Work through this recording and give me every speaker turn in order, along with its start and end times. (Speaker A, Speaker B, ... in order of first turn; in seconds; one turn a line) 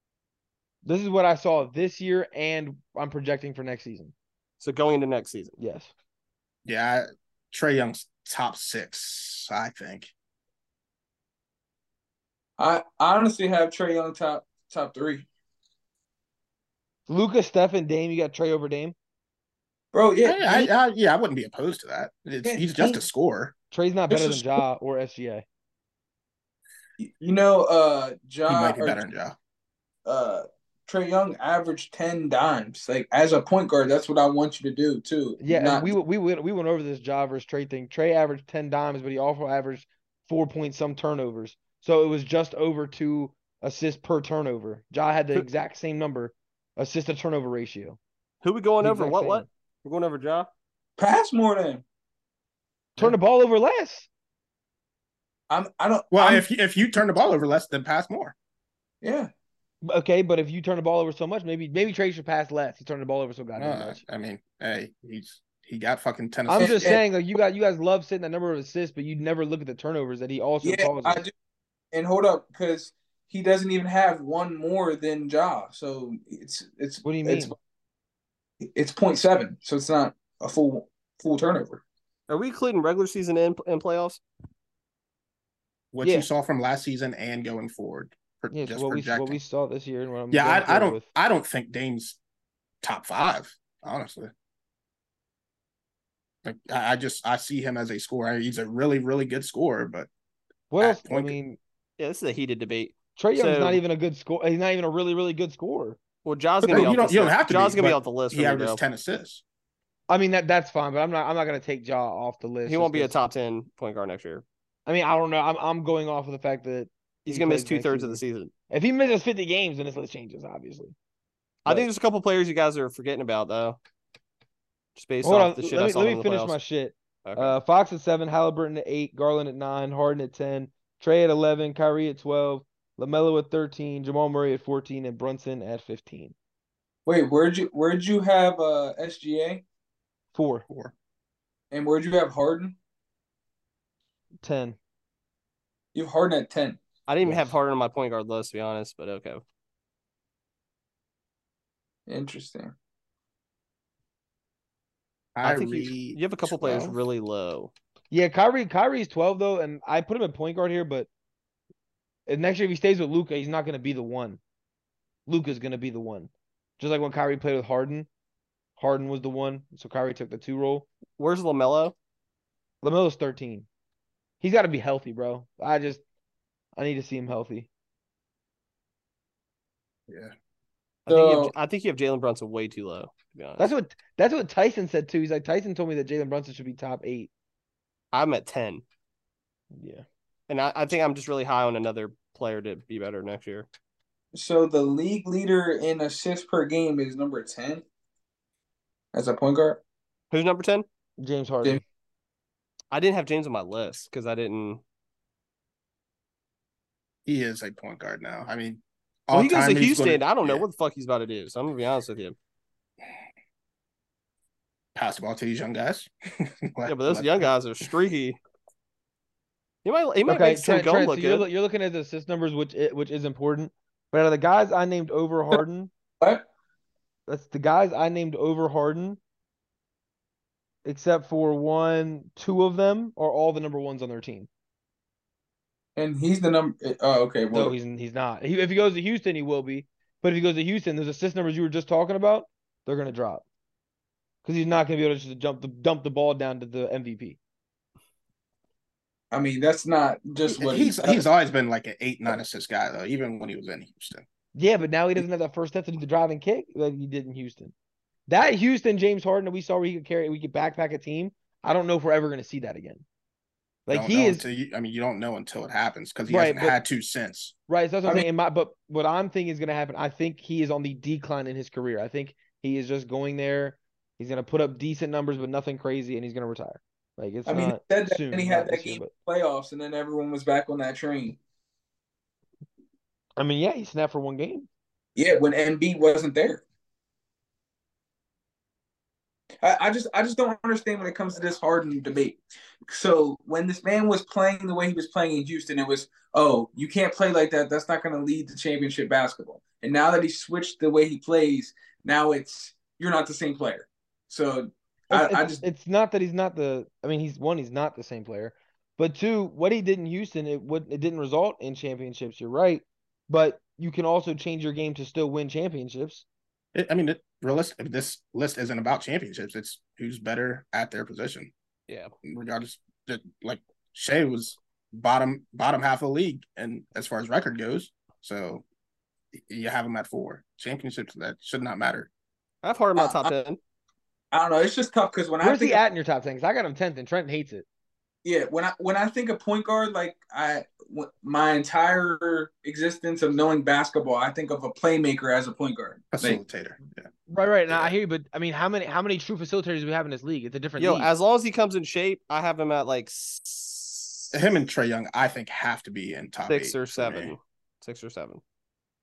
Speaker A: 0.8-4.1
Speaker B: 4.6-5.5
Speaker A: 5.6-5.9
Speaker C: 6.7-10.1
Speaker D: 12.6-15.3
Speaker A: 17.1-18.9
Speaker D: 19.9-20.7
Speaker C: 20.2-23.5
Speaker D: 22.4-23.0
Speaker A: 23.7-25.4
Speaker D: 24.1-24.5
Speaker D: 27.0-29.0
Speaker C: 28.5-29.4
Speaker D: 30.1-36.0
Speaker A: 35.4-48.0
Speaker B: 48.4-50.5
Speaker A: 48.8-49.5
Speaker D: 51.0-51.8
Speaker A: 53.0-54.1
Speaker D: 55.5-56.5
Speaker C: 56.1-58.4
Speaker D: 59.0-59.3
Speaker A: 59.8-64.0
Speaker C: 63.6-67.0
Speaker A: 66.5-71.3
Speaker D: 66.6-67.0
Speaker D: 70.6-71.3
Speaker D: 71.9-77.5
Speaker A: 77.0-77.5
Speaker D: 78.6-81.8
Speaker B: 82.3-84.2
Speaker C: 85.9-89.4
Speaker A: 86.0-86.3
Speaker A: 88.5-91.1
Speaker C: 90.3-92.2
Speaker C: 92.8-94.3
Speaker C: 96.4-100.1
Speaker A: 100.7-101.6
Speaker C: 100.8-101.4
Speaker B: 102.0-103.8
Speaker A: 103.2-106.0
Speaker B: 106.2-108.8
Speaker C: 106.7-109.4
Speaker A: 110.1-113.2
Speaker B: 112.7-114.4
Speaker A: 114.9-121.0
Speaker B: 117.3-118.5
Speaker B: 121.7-123.8
Speaker B: 125.0-126.6
Speaker A: 125.2-136.3
Speaker B: 127.2-127.6
Speaker D: 137.1-139.6
Speaker A: 140.3-140.7
Speaker D: 141.7-142.8
Speaker A: 144.4-144.8
Speaker D: 145.9-146.8
Speaker B: 147.1-149.4
Speaker A: 147.2-147.5
Speaker D: 152.1-152.7
Speaker C: 155.3-157.0
Speaker B: 155.4-157.7
Speaker A: 158.1-161.1
Speaker A: 162.3-164.4
Speaker A: 165.3-168.1
Speaker A: 168.8-170.9
Speaker B: 171.2-171.9
Speaker A: 172.8-173.7
Speaker A: 174.4-176.0
Speaker A: 176.8-177.7
Speaker B: 181.1-183.7
Speaker D: 181.1-181.5
Speaker A: 183.6-187.3
Speaker B: 188.1-188.8
Speaker A: 189.7-190.1
Speaker B: 190.5-193.7
Speaker D: 194.3-197.8
Speaker D: 199.1-199.8
Speaker B: 200.3-200.9
Speaker A: 201.2-201.8
Speaker B: 202.9-204.8
Speaker C: 207.3-210.7
Speaker B: 209.3-212.4
Speaker C: 214.9-217.9
Speaker B: 216.9-218.4
Speaker B: 219.8-221.5
Speaker A: 220.3-225.9
Speaker A: 227.3-229.2
Speaker A: 230.8-234.5
Speaker D: 236.0-237.8
Speaker A: 237.5-243.4
Speaker A: 244.4-247.4
Speaker D: 249.3-251.3
Speaker C: 250.5-254.2
Speaker A: 254.6-257.7
Speaker A: 258.3-263.0
Speaker A: 263.9-264.4
Speaker C: 263.9-267.6
Speaker A: 266.3-266.8
Speaker A: 267.7-279.1
Speaker D: 277.5-281.4
Speaker A: 283.4-284.7
Speaker D: 285.2-286.6
Speaker D: 289.6-305.6
Speaker A: 305.1-316.2
Speaker C: 316.7-321.5
Speaker C: 322.2-328.6
Speaker C: 329.3-332.1
Speaker B: 332.6-333.6
Speaker D: 333.0-333.3
Speaker D: 334.3-335.8
Speaker A: 335.4-337.7
Speaker D: 338.2-346.4
Speaker C: 346.1-347.1
Speaker A: 347.3-351.1
Speaker B: 350.8-354.4
Speaker C: 354.3-357.3
Speaker B: 356.5-358.4